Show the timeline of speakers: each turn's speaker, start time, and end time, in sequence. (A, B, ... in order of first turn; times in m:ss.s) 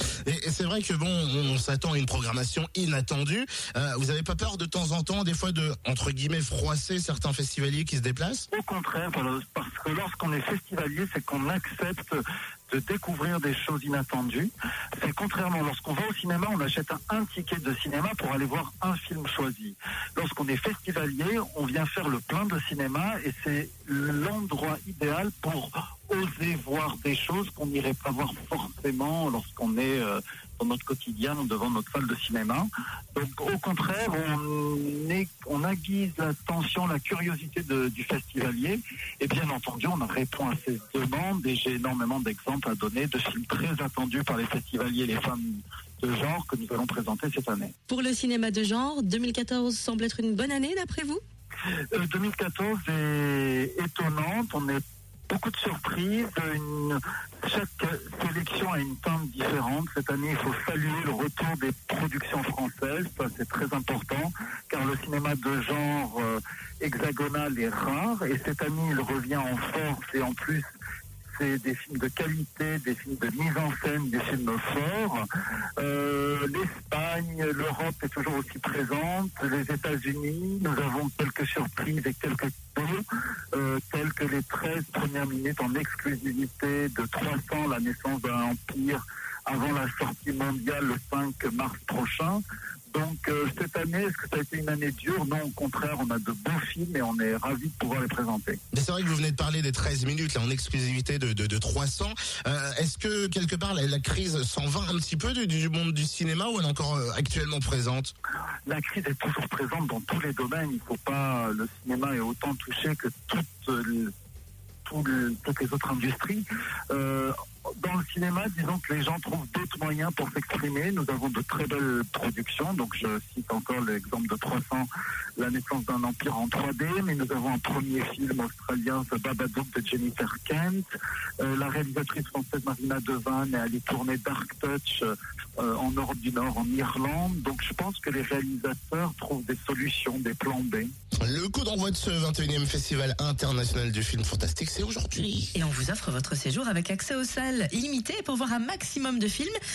0:00.2-0:08.5 A
0:08.5-0:47.7 B
0:47.9-0:51.2 C
0:51.9-1:10.6 B
1:11.3-1:15.2 B
1:15.8-1:38.6 B
1:38.7-1:48.1 A
1:48.6-1:54.1 B
1:54.8-2:10.8 B
2:11.4-2:20.9 B
2:21.2-2:25.5 A
2:25.5-2:29.6 D